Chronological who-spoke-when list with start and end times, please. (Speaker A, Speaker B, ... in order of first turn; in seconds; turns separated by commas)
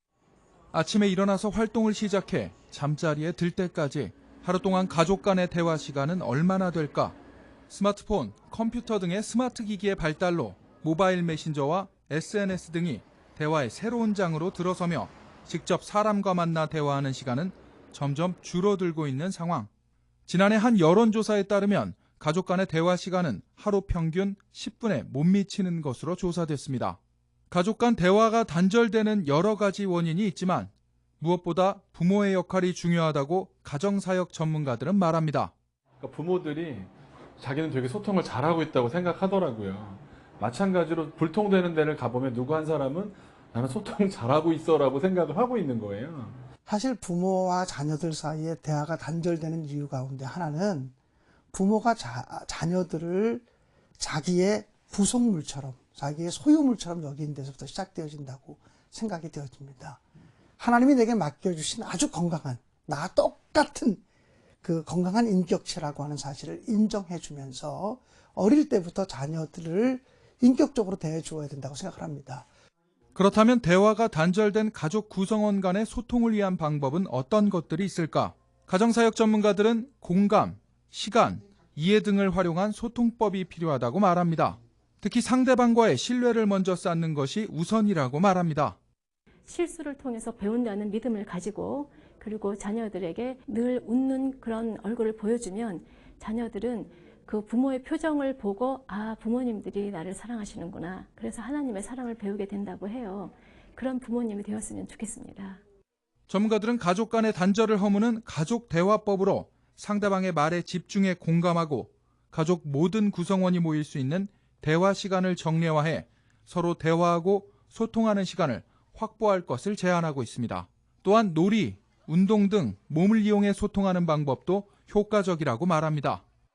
Speaker A: 0.7-7.2, Speaker A: 7.7-19.7, Speaker A: 20.3-27.0, Speaker A: 27.5-35.5, Speaker B: 36.0-46.5, Speaker C: 46.7-50.9, Speaker C: 51.5-53.5, Speaker C: 54.0-60.0, Speaker C: 60.6-64.0, Speaker C: 64.6-72.5, Speaker A: 73.2-88.8, Speaker D: 89.5-105.6, Speaker A: 106.3-126.2